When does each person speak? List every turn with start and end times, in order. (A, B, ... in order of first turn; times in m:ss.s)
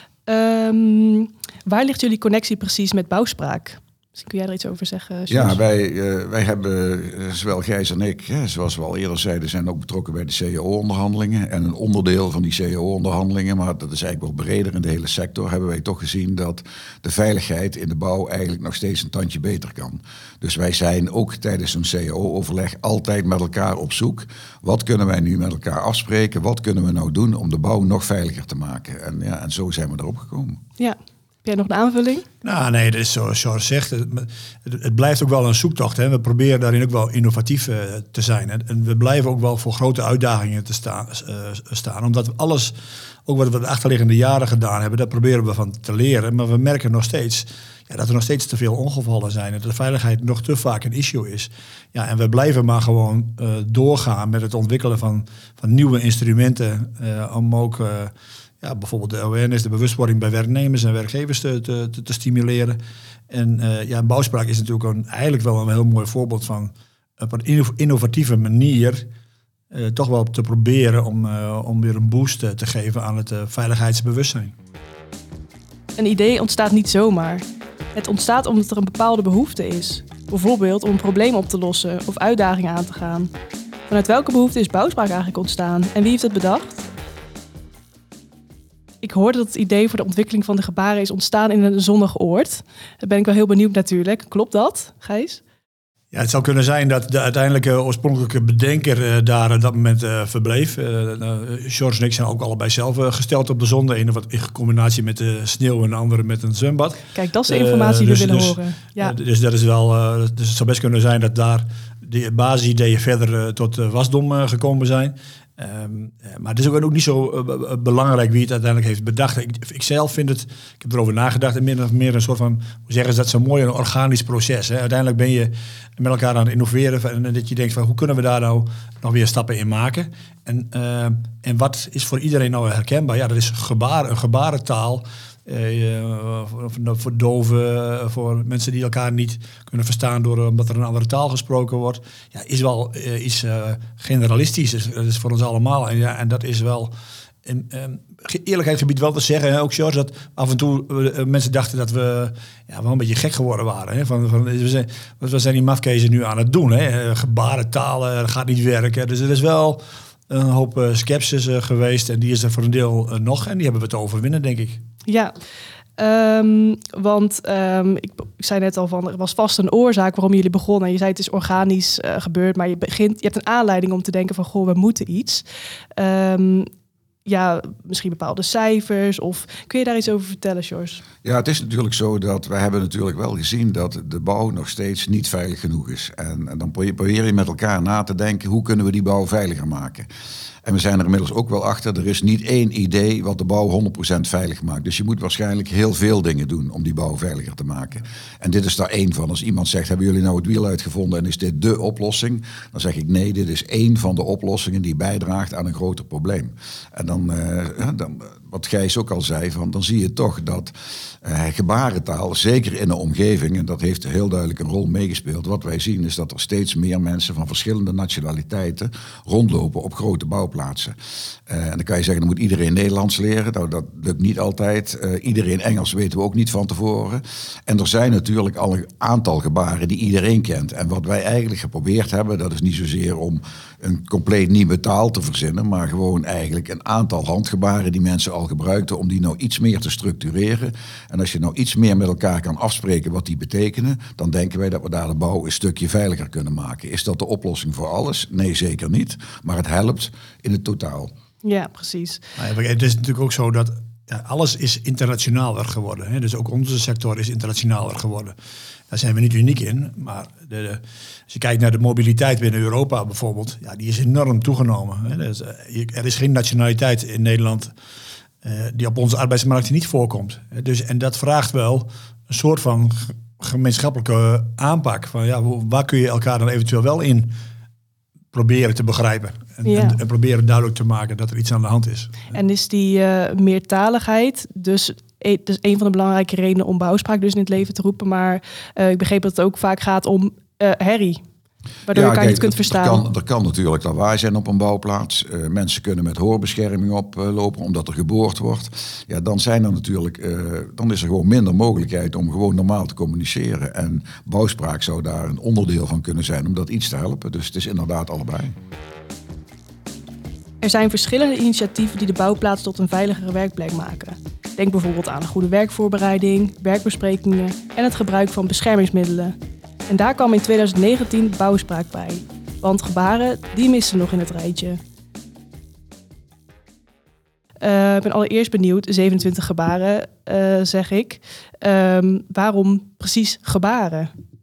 0:00.3-0:05.6 A
0:05.3-0:30.6 B
0:30.8-0:32.3 A
0:32.4-0:42.7 C
0:43.3-1:02.8 C
1:03.3-1:09.1 C
1:09.7-1:14.5 C
1:16.0-1:17.4 A
1:18.0-1:23.3 A
1:23.9-1:26.8 A
1:29.0-1:35.4 A
1:36.1-2:26.9 C
1:47.1-1:49.2 A
2:27.4-2:44.8 C
2:45.1-2:45.4 A
2:46.0-2:55.4 A
2:56.0-2:56.7 A
2:57.3-3:01.0 A
3:01.2-3:10.1 B
3:10.6-3:41.0 B
3:41.5-4:11.1 B
4:11.4-4:12.2 A
4:12.4-4:18.4 C
4:18.9-4:27.7 C
4:28.4-4:37.3 C
4:38.3-4:42.4 C
4:39.6-4:40.0 A
4:42.3-4:51.2 A
4:51.9-4:53.0 A
4:51.9-5:08.6 B
5:10.6-5:19.4 A
5:19.9-5:24.8 A
5:27.6-5:34.1 A